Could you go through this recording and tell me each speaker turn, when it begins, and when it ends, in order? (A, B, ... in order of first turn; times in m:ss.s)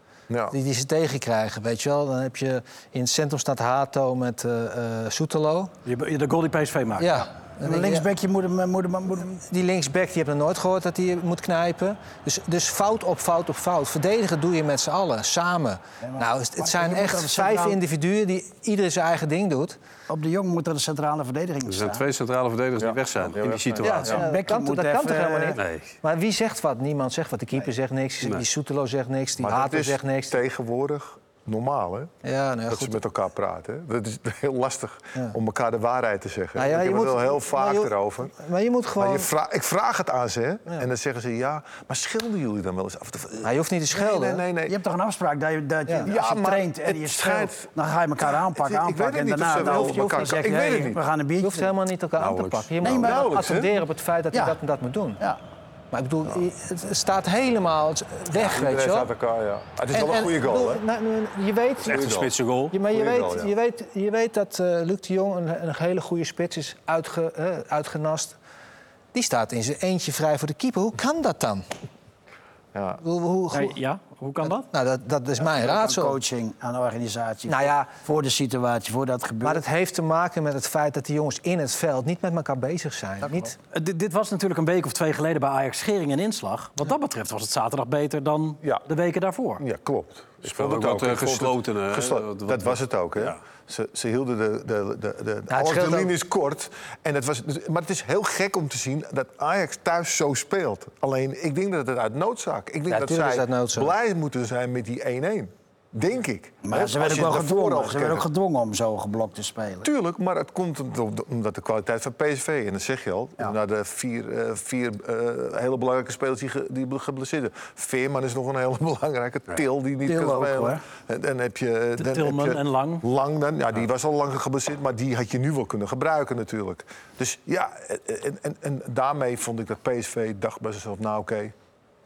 0:00.3-0:00.6 A
0:00.5-0:05.7 B
0:05.9-0:07.2 C
0:07.0-0:08.1 B
0:07.6-0:09.4 D
0:09.4-0:19.8 B
0:16.0-0:17.8 D
0:20.1-0:22.0 D
0:21.6-0:24.2 E
0:22.8-0:24.2 A
0:23.8-0:30.4 B
0:24.1-0:25.6 D
0:25.6-0:26.0 E
0:29.4-0:32.1 A
0:32.2-0:33.0 B
0:32.7-0:38.3 A
0:36.6-0:39.3 B
0:39.0-0:44.8 A
0:43.4-0:44.4 B
0:44.6-0:51.7 D
0:46.0-0:47.7 A
0:48.2-0:51.0 A
0:49.6-0:50.4 B
0:51.4-0:55.2 B
0:52.2-0:52.7 E
0:52.8-0:53.4 D
0:53.0-0:53.8 A
0:55.9-0:59.1 B
0:58.3-1:00.8 A
0:59.9-1:02.1 B
1:01.8-1:02.3 A
1:01.9-1:02.8 E
1:02.7-1:08.4 B
1:02.9-1:03.5 A
1:09.1-1:11.6 B
1:12.7-1:13.0 A
1:13.0-1:13.8 B
1:13.5-1:14.7 C
1:14.4-1:16.2 B
1:15.4-1:19.6 D
1:17.5-1:17.9 B
1:19.4-1:23.6 B
1:23.7-1:29.6 C
1:29.6-1:48.3 A
1:30.4-1:33.4 E
1:35.5-1:36.1 B
1:42.9-1:43.9 B
1:46.6-1:49.9 D
1:49.8-2:11.6 A
2:00.0-2:00.8 D
2:02.0-2:03.0 C